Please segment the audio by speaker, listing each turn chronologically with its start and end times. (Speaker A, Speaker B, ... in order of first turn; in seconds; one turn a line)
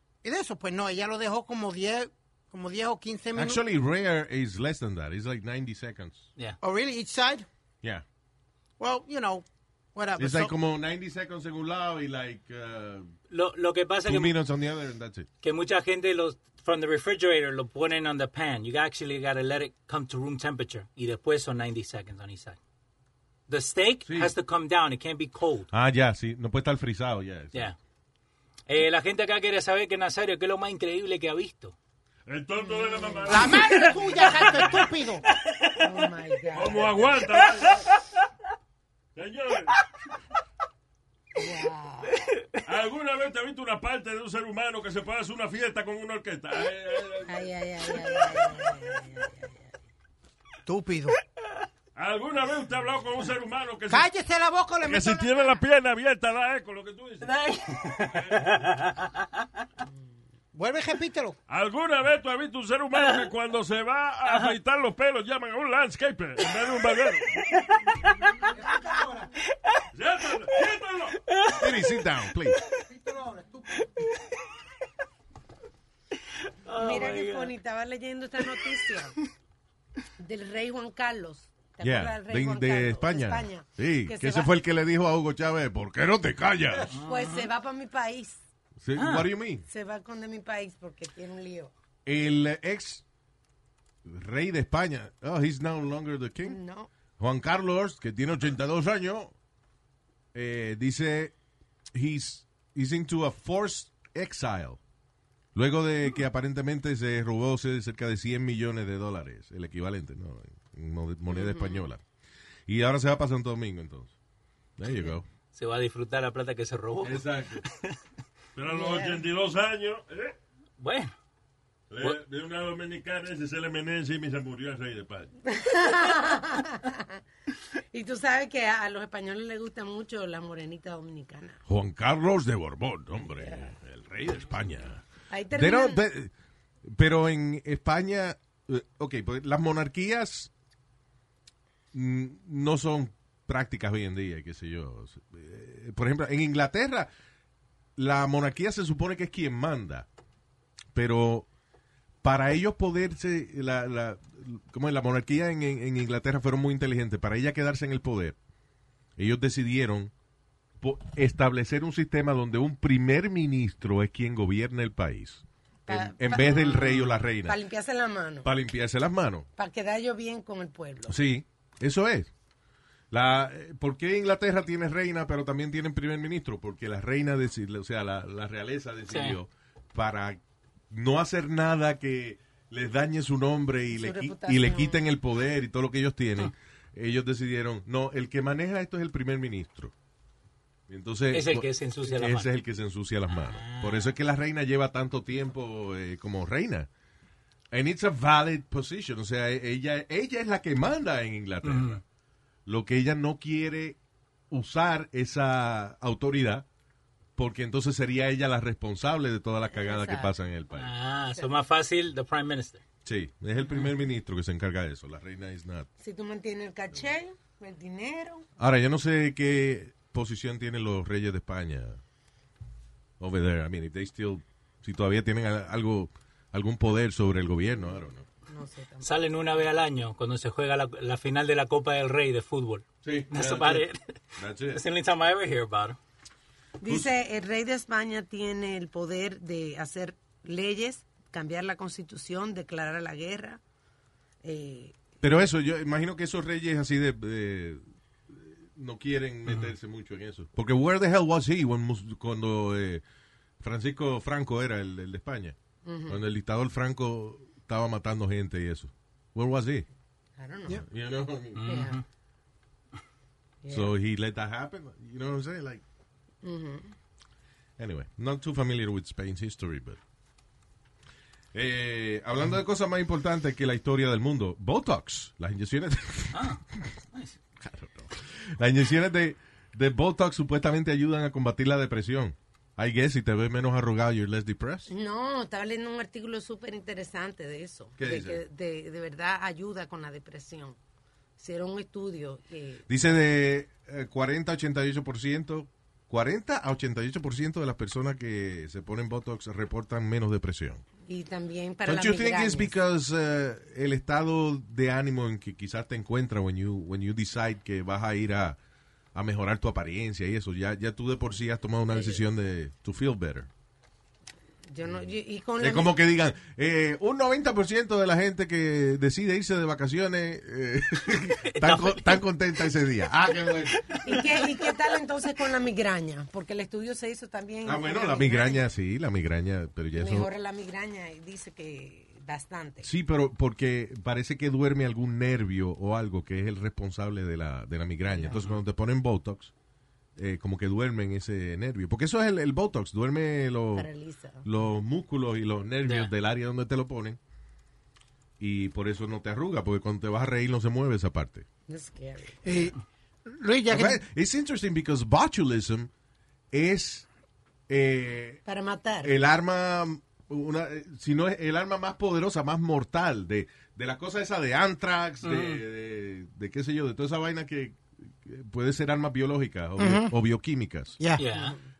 Speaker A: 0.2-3.6
Speaker B: 3.3-6.3
Speaker A: 6.6-7.5
Speaker A: 8.8-10.5
Speaker B: 10.2-13.1
Speaker C: 13.3-14.3
Speaker B: 14.0-15.3
Speaker C: 15.4-22.6
Speaker C: 23.5-25.7
Speaker B: 24.1-24.3
Speaker B: 25.7-27.7
Speaker C: 28.7-31.7
Speaker D: 32.3-34.2
Speaker E: 32.6-33.3
Speaker A: 33.3-35.2
Speaker C: 33.6-34.7
Speaker C: 35.3-35.7
Speaker E: 35.8-37.1
Speaker D: 36.5-37.9
Speaker C: 37.4-37.8
Speaker D: 39.1-39.8
Speaker E: 41.4-42.2
Speaker D: 42.6-47.5
Speaker E: 47.2-49.7
Speaker A: 50.6-51.1
Speaker D: 51.9-54.1
Speaker A: 53.9-55.6
Speaker D: 54.8-57.3
Speaker C: 57.2-59.3
Speaker D: 57.9-58.5
Speaker A: 60.5-61.4
Speaker D: 61.5-67.4
Speaker C: 63.0-63.3
Speaker C: 64.2-64.5
Speaker C: 68.0-68.3
Speaker A: 68.7-69.2
Speaker D: 69.9-71.2
Speaker C: 71.3-71.9
Speaker B: 71.5-72.6
Speaker A: 73.0-73.8
Speaker C: 76.6-77.5
Speaker E: 76.8-79.2
Speaker E: 80.2-84.5
Speaker B: 81.8-86.9
Speaker C: 86.9-87.5
Speaker E: 86.9-88.4
Speaker B: 88.8-89.6
Speaker C: 89.0-89.3
Speaker E: 89.7-91.7
Speaker B: 92.0-93.0
Speaker B: 94.0-96.6
Speaker E: 96.4-96.9
Speaker B: 97.2-99.3
Speaker B: 100.3-101.3
Speaker B: 101.9-104.8
Speaker B: 105.5-112.0
Speaker E: 111.3-111.8
Speaker B: 112.7-114.1
Speaker B: 114.8-115.2
Speaker C: 115.5-118.0
Speaker B: 117.0-117.6
Speaker D: 118.5-120.4
Speaker E: 118.7-119.2
Speaker C: 120.8-121.1
Speaker D: 121.9-125.3
Speaker E: 125.5-127.2
Speaker E: 127.9-131.6
Speaker B: 131.7-136.3
Speaker E: 133.4-133.7
Speaker E: 135.3-136.0
Speaker B: 136.8-140.5
Speaker B: 141.9-147.1
Speaker B: 147.9-150.1
Speaker B: 150.9-151.5
Speaker B: 152.2-158.4
Speaker B: 159.2-160.1
Speaker B: 160.8-167.6
Speaker E: 165.9-168.5
Speaker B: 168.4-169.5
Speaker E: 169.6-171.1
Speaker B: 171.1-172.3
Speaker B: 173.1-189.9
Speaker C: 179.1-179.4
Speaker E: 183.9-185.0
Speaker B: 190.9-196.9
Speaker C: 191.3-192.5
Speaker C: 193.3-194.1
Speaker B: 197.7-202.0
Speaker C: 201.6-202.0
Speaker B: 202.7-204.0
Speaker B: 204.5-206.7
Speaker B: 207.4-210.9
Speaker E: 209.7-210.3
Speaker C: 210.7-212.8
Speaker B: 213.0-215.9
Speaker E: 216.0-218.4
Speaker B: 218.6-222.0
Speaker B: 223.2-228.3
Speaker E: 228.5-229.1
Speaker C: 229.0-234.1
Speaker B: 233.0-233.8
Speaker B: 234.4-234.8
Speaker C: 234.7-236.0
Speaker E: 236.8-243.6
Speaker E: 244.4-245.0
Speaker B: 245.2-253.0
Speaker B: 253.6-255.6
Speaker E: 255.8-256.2
Speaker B: 256.1-259.9
Speaker E: 260.4-260.8
Speaker B: 260.8-261.9
Speaker C: 261.6-262.0
Speaker E: 261.6-262.0
Speaker E: 263.6-263.9
Speaker B: 263.7-265.8
Speaker E: 266.4-266.9
Speaker B: 267.8-270.0
Speaker B: 271.5-276.9
Speaker C: 276.3-276.6
Speaker B: 277.6-284.9
Speaker E: 284.9-290.8
Speaker B: 288.0-288.4
Speaker E: 291.4-292.8
Speaker B: 292.9-300.8
Speaker E: 301.1-302.7
Speaker B: 301.9-308.6
Speaker B: 309.1-313.5
Speaker E: 311.9-312.2
Speaker E: 314.7-315.9
Speaker B: 315.6-324.0
Speaker C: 321.5-322.2
Speaker C: 323.9-324.2
Speaker E: 324.0-328.6
Speaker B: 327.6-330.3
Speaker E: 329.9-332.9
Speaker B: 332.8-339.5
Speaker B: 340.2-343.9
Speaker E: 343.7-344.4
Speaker B: 344.4-347.2
Speaker C: 345.8-346.1
Speaker B: 348.4-351.4
Speaker E: 351.7-352.4
Speaker A: 352.4-354.0
Speaker B: 353.7-355.9
Speaker B: 356.5-357.1
Speaker B: 357.7-358.4
Speaker E: 358.4-359.1
Speaker B: 359.0-371.0
Speaker C: 365.2-365.6
Speaker A: 369.8-370.1
Speaker C: 371.2-371.6
Speaker E: 371.3-371.6